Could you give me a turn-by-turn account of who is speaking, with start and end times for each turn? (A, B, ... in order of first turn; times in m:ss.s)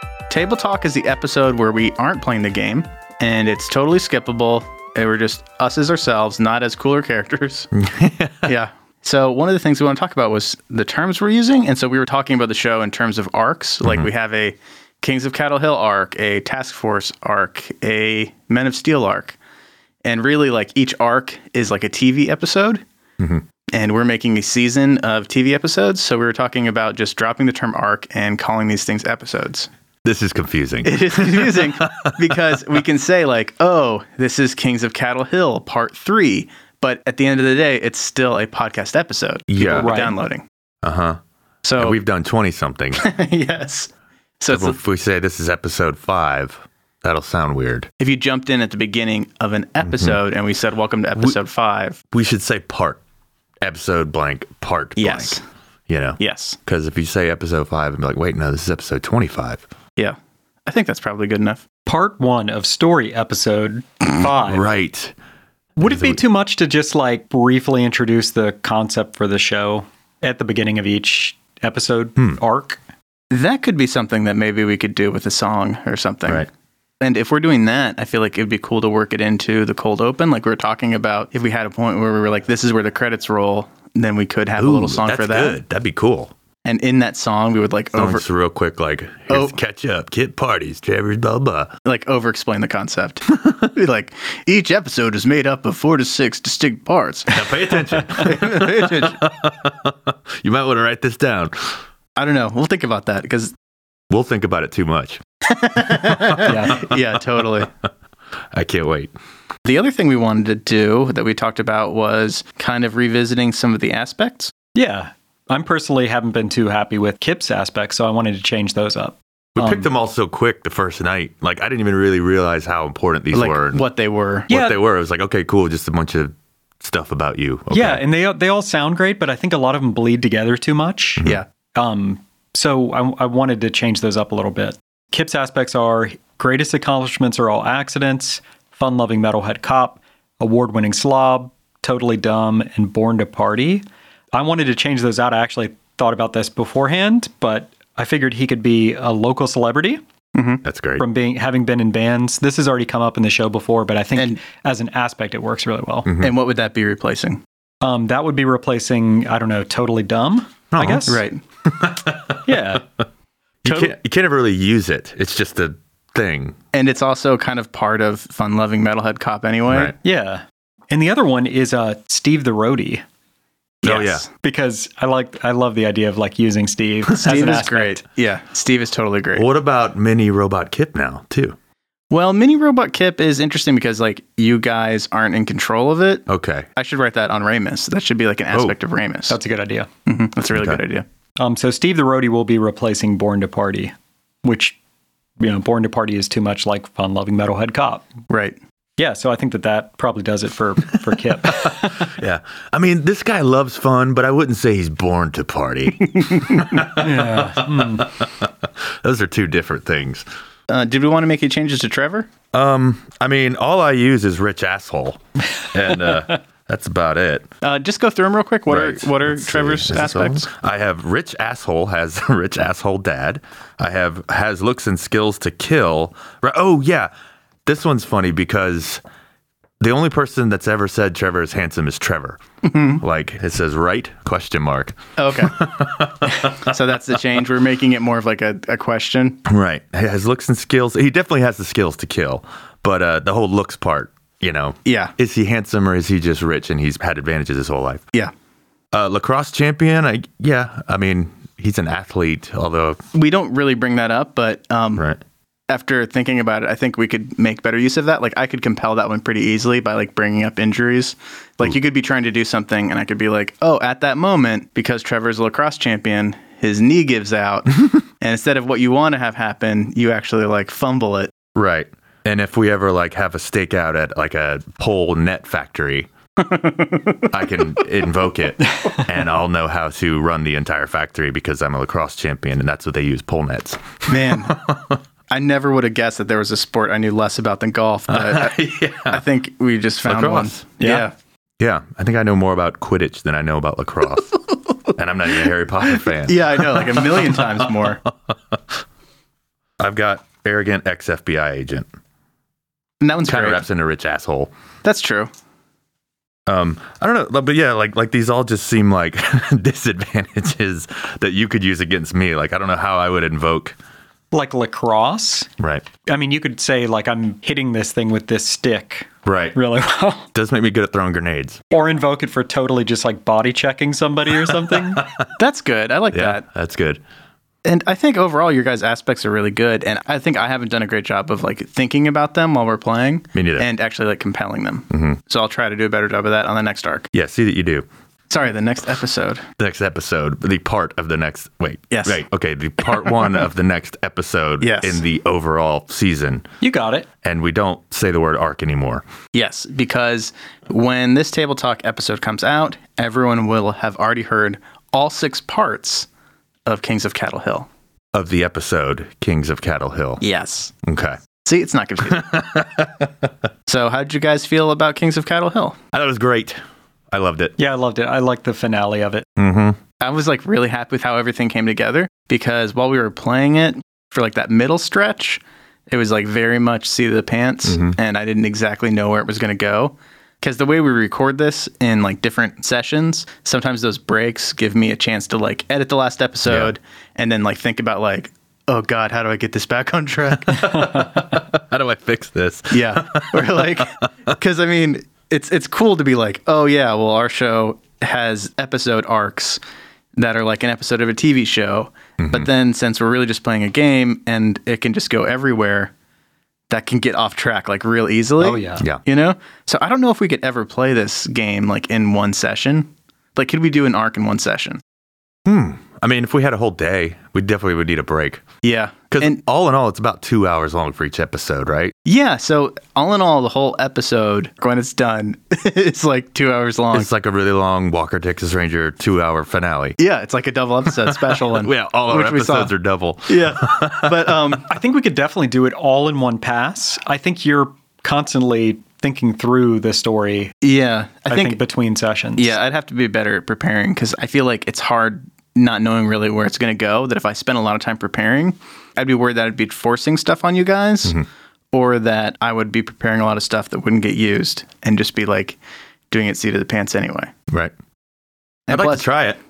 0:00.3-0:07.7 A
0:07.7-0:08.5 B
0:08.4-0:19.4 A
0:20.0-0:22.8 A
0:23.2-0:23.4 B
0:23.7-0:29.7 A
0:30.0-0:32.6 B
0:30.8-0:40.4 A
0:39.5-0:39.9 B
0:39.8-0:40.2 C
0:40.8-0:41.2 B
0:41.6-0:42.0 A
0:41.8-0:43.0 B
0:43.0-0:44.8 A
0:44.5-0:47.9 B
0:48.0-0:52.0 A
0:49.9-0:50.2 B
0:52.1-0:53.0 B
0:53.6-0:59.6 B
0:55.0-0:55.4 A
0:56.2-0:56.6 A
1:00.0-1:01.6 A
1:01.9-1:04.6 C
1:04.4-1:05.1 B
1:05.8-1:12.8 C
1:05.8-1:06.2 B
1:13.3-1:16.5 A
1:17.0-1:25.6 A
1:24.6-1:26.3 B
1:26.6-1:28.2 A
1:28.0-1:31.7 B
1:29.3-1:29.6 A
1:31.8-1:39.2 A
1:37.3-1:41.8 B
1:42.2-1:43.5 A
1:44.1-1:45.2 B
1:45.5-1:47.7 A
1:45.9-1:47.7 B
1:48.5-1:49.1 B
1:49.6-1:54.5 A
1:54.8-1:59.9 C
1:59.6-2:03.8 B
2:03.3-2:04.5 A
2:04.5-2:04.8 C
2:04.5-2:08.0 B
2:07.7-2:30.0 C
2:30.4-2:30.6 A
2:30.6-2:31.0 B
2:31.0-2:36.1 C
2:36.1-2:36.3 B
2:36.2-2:37.4 A
2:37.8-2:41.2 C
2:40.7-2:41.1 B
2:41.1-2:41.4 A
2:41.6-2:42.8 B
2:42.5-2:42.8 C
2:43.6-2:46.6 B
2:43.6-2:43.9 A
2:46.7-2:50.0 A
2:49.7-2:49.9 B
2:50.0-2:53.0 C
2:53.8-2:54.2 B
2:53.8-2:54.3 A
2:54.3-2:58.0 C
2:57.2-2:59.5 A
2:59.4-3:01.6 B
3:02.1-3:09.4 A
3:06.3-3:06.7 B
3:09.3-3:09.9 C
3:10.1-3:11.0 A
3:10.5-3:10.8 B
3:11.4-3:13.9 C
3:14.4-3:14.8 C
3:15.4-3:18.1 C
3:18.3-3:18.6 A
3:19.0-3:22.1 C
3:21.5-3:30.2 B
3:26.2-3:26.8 A
3:26.8-3:28.1 C
3:30.7-3:32.3 A
3:32.5-3:37.5 B
3:37.6-3:40.5 A
3:38.7-3:47.1 B
3:47.7-3:49.0 B
3:49.8-3:52.4 B
3:52.6-3:53.0 A
3:53.0-3:56.7 B
3:55.2-3:55.7 A
3:56.4-3:59.4 A
3:59.5-4:08.0 B
4:04.8-4:05.1 A
4:08.9-4:13.0 B
4:13.1-4:15.0 A
4:15.7-4:31.3 A
4:31.6-4:36.1 B
4:36.4-4:37.3 A
4:37.3-4:45.0 B
4:44.1-4:44.6 A
4:45.3-4:51.1 A
4:48.1-4:49.2 B
4:50.0-4:51.0 B
4:51.6-4:54.4 B
4:54.9-4:58.0 B
4:56.1-4:58.0 A
4:59.8-5:01.9 B
5:03.0-5:03.6 A
5:03.3-5:04.5 B
5:04.8-5:05.3 A
5:06.5-5:13.8 B
5:14.3-5:15.5 C
5:15.6-5:15.9 B
5:16.1-5:20.3 C
5:19.3-5:19.6 B
5:20.3-5:21.6 B
5:21.7-5:25.1 C
5:24.5-5:25.3 B
5:25.4-5:26.4 A
5:26.1-5:27.0 B
5:27.6-5:37.1 A
5:33.3-5:33.7 B
5:34.9-5:35.2 B
5:37.1-5:37.9 B
5:38.3-5:39.5 A
5:39.6-5:46.4 B
5:41.9-5:42.2 A
5:44.6-5:45.0 A
5:46.6-5:47.1 C
5:47.2-5:49.0 B
5:49.3-5:56.1 A
5:56.7-5:57.7 A
5:58.1-6:00.2 B
6:00.2-6:00.7 A
6:00.8-6:01.2 B
6:01.4-6:02.3 A
6:02.1-6:03.3 B
6:03.7-6:05.8 A
6:05.9-6:06.6 B
6:07.1-6:07.6 B
6:07.6-6:09.2 C
6:09.4-6:09.8 B
6:10.0-6:31.0 A
6:17.7-6:18.0 B
6:26.5-6:26.7 B
6:30.6-6:34.0 B
6:32.7-6:39.6 A
6:40.2-6:45.9 A
6:42.2-6:42.5 B
6:46.7-6:54.8 A
6:48.4-6:48.9 C
6:55.5-6:58.4 B
6:58.6-6:59.4 A
6:59.1-7:01.9 B
7:02.0-7:07.1 A
7:06.9-7:10.0 B
7:10.0-7:12.7 A
7:11.1-7:14.4 B
7:13.3-7:14.7 A
7:14.7-7:20.6 C
7:20.6-7:21.6 A
7:21.3-7:22.6 C
7:22.4-7:31.2 A
7:31.7-7:35.6 A
7:36.1-7:37.3 A
7:38.7-7:39.1 A
7:38.7-7:39.4 B